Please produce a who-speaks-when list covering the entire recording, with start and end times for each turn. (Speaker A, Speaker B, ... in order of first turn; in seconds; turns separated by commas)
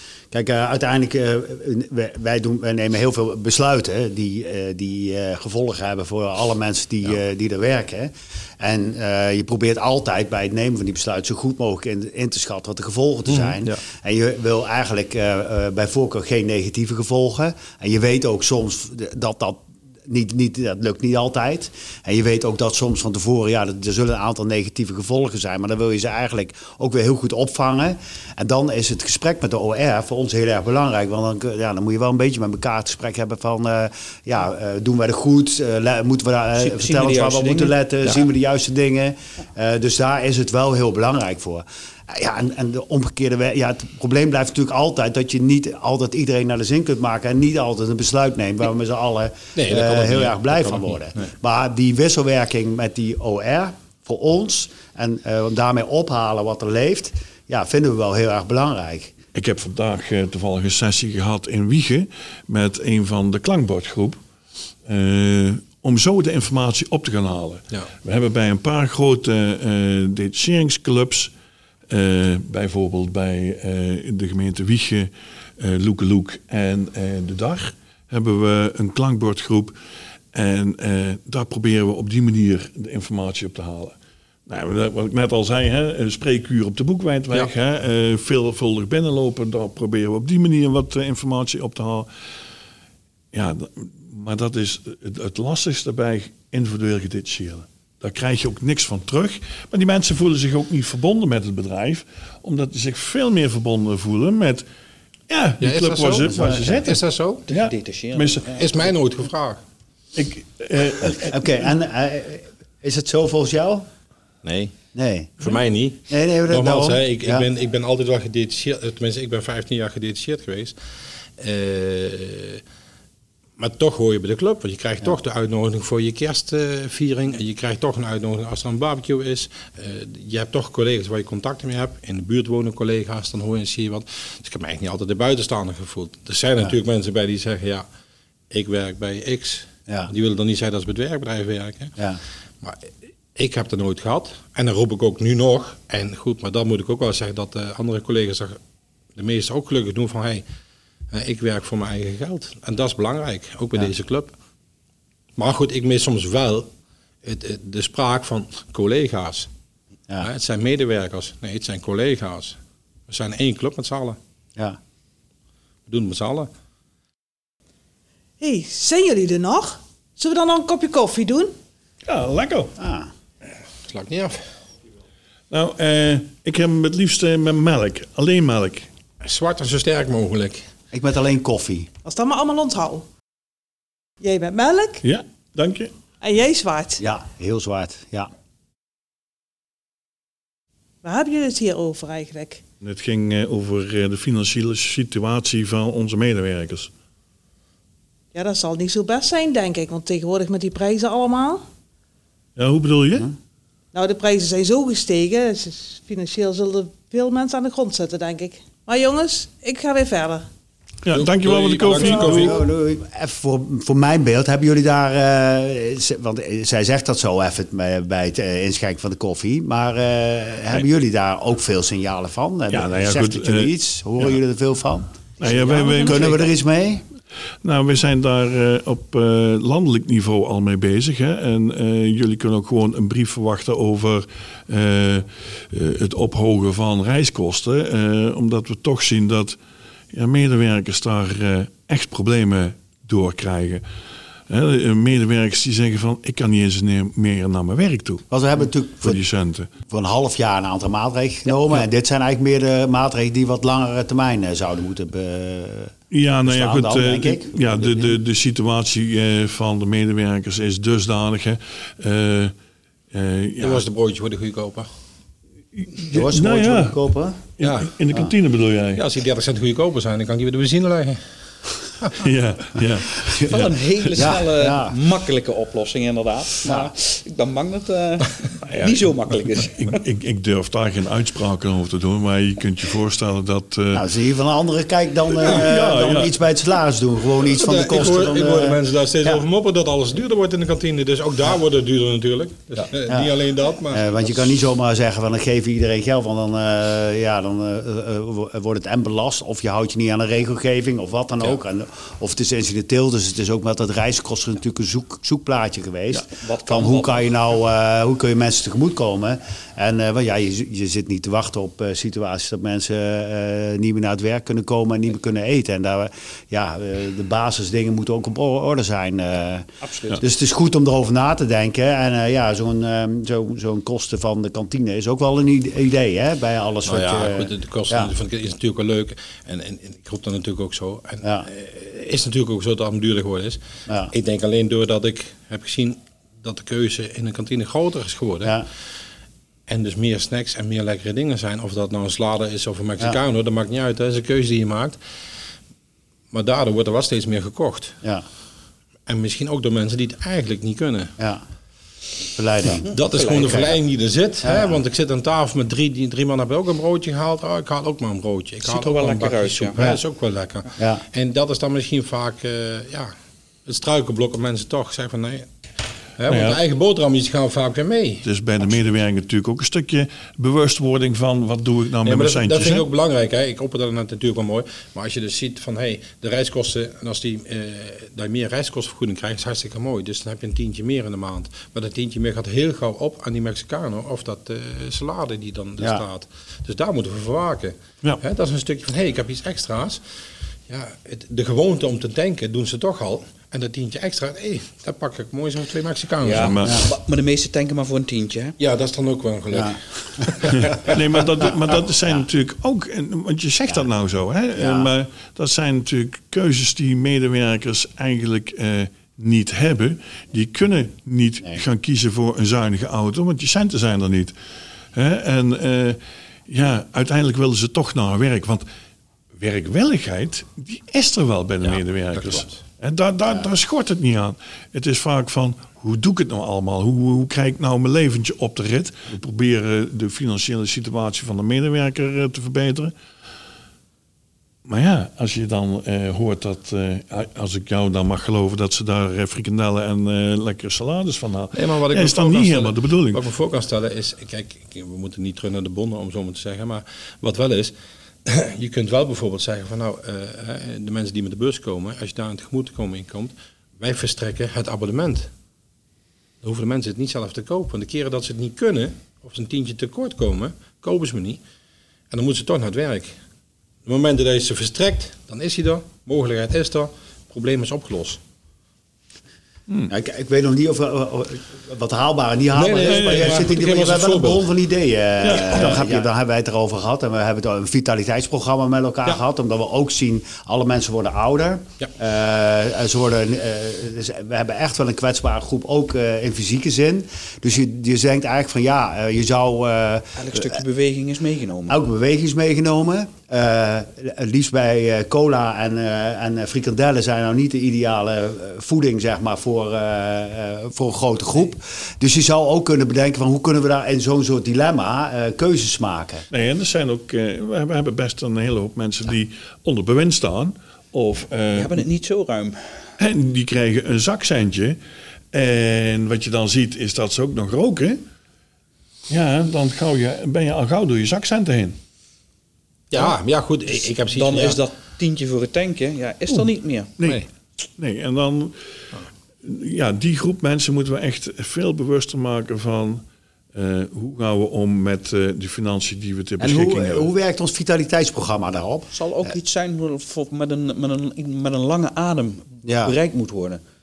Speaker A: 0.3-59.1, Speaker B: 36.6-38.2, Speaker C: 49.6-51.3, Speaker D: 59.4-64.2, Speaker D: 64.9-71.3, Speaker D: 71.9-79.8, Speaker D: 80.3-84.0, Speaker D: 84.5-92.1, Speaker D: 93.3-104.7, Speaker D: 105.3-108.6, Speaker C: 105.6-107.4, Speaker A: 106.2-106.9, Speaker B: 107.5-108.8, Speaker C: 108.5-109.6, Speaker D: 110.2-111.7, Speaker A: 111.0-113.9, Speaker C: 114.4-114.8, Speaker A: 115.0-115.3, Speaker C: 115.4-120.8, Speaker A: 116.1-117.5, Speaker C: 121.4-122.6, Speaker C: 123.6-137.8, Speaker C: 138.5-141.9, Speaker C: 142.6-148.6, Speaker C: 149.2-150.4, Speaker C: 151.1-154.3, Speaker C: 155.4-156.7, Speaker C: 157.2-159.5, Speaker C: 160.2-164.2, Speaker C: 165.9-166.5, Speaker E: 168.4-171.5, Speaker D: 172.1-172.7, Speaker A: 172.8-173.1, Speaker C: 173.8-174.5, Speaker D: 175.5-178.9, Speaker C: 179.2-180.7, Speaker A: 180.9-181.9, Speaker E: 182.0-183.1, Speaker E: 184.2-185.0, Speaker D: 185.0-185.9, Speaker E: 186.2-187.0, Speaker A: 187.0-188.3, Speaker E: 191.0-192.6, Speaker D: 192.8-196.9, Speaker E: 198.3-201.6, Speaker D: 202.6-203.3, Speaker E: 203.9-210.5, Speaker D: 211.0-212.6, Speaker C: 211.1-212.6, Speaker A: 212.0-225.1, Speaker D: 222.7-223.7, Speaker D: 225.4-226.4, Speaker A: 226.0-227.0, Speaker D: 227.6-239.6, Speaker D: 240.1-243.8, Speaker D: 244.5-248.2, Speaker A: 248.3-249.2, Speaker D: 249.0-249.7, Speaker A: 249.8-258.2, Speaker D: 256.1-262.5, Speaker D: 263.1-263.8, Speaker C: 263.6-264.9, Speaker D: 265.7-267.0, Speaker A: 266.1-267.4, Speaker D: 267.6-269.0, Speaker C: 267.6-267.9, Speaker C: 268.9-271.2, Speaker C: 272.0-272.2, Speaker D: 272.1-274.4, Speaker B: 273.4-280.0, Speaker A: 274.2-275.0, Speaker A: 276.6-276.9, Speaker D: 278.7-284.1, Speaker A: 283.9-289.4, Speaker D: 285.4-286.4, Speaker C: 287.4-294.5, Speaker A: 293.0-293.3, Speaker A: 293.9-319.7, Speaker B: 306.1-307.4, Speaker B: 319.8-320.2, Speaker A: 320.2-328.1, Speaker C: 326.9-338.7, Speaker A: 331.2-331.5, Speaker A: 333.9-334.1, Speaker C: 339.7-345.0, Speaker C: 346.3-348.0, Speaker C: 349.1-351.1, Speaker A: 352.2-353.8, Speaker B: 352.8-353.6, Speaker C: 352.9-363.1, Speaker A: 354.4-354.8, Speaker B: 358.6-359.9, Speaker A: 360.8-361.0, Speaker C: 363.7-365.5, Speaker C: 366.2-368.2, Speaker D: 366.3-366.6, Speaker D: 368.2-372.9, Speaker C: 372.0-390.0, Speaker A: 385.8-386.0, Speaker C: 390.7-396.6, Speaker B: 396.2-398.6, Speaker D: 396.3-396.9, Speaker A: 396.6-396.9, Speaker C: 398.6-401.1, Speaker A: 399.5-400.6, Speaker D: 400.9-414.3, Speaker A: 404.6-404.9, Speaker D: 414.9-418.6, Speaker D: 419.4-432.9, Speaker C: 421.6-422.6, Speaker D: 434.7-443.2, Speaker C: 441.5-447.7, Speaker C: 448.2-455.3, Speaker C: 456.4-461.4, Speaker C: 462.1-463.2, Speaker C: 463.9-468.2, Speaker A: 469.9-490.6, Speaker C: 472.5-474.5, Speaker D: 472.9-473.4, Speaker D: 475.2-475.9, Speaker C: 475.3-476.0, Speaker B: 490.2-491.8, Speaker A: 491.7-506.2, Speaker D: 506.3-511.9, Speaker B: 511.6-513.0, Speaker D: 513.0-514.8, Speaker D: 515.3-518.0, Speaker D: 519.1-521.8, Speaker C: 522.9-524.6, Speaker B: 524.1-526.9, Speaker D: 527.0-527.2, Speaker D: 527.8-528.6, Speaker D: 529.4-537.1, Speaker A: 536.4-539.4, Speaker B: 538.9-543.6, Speaker A: 542.6-543.0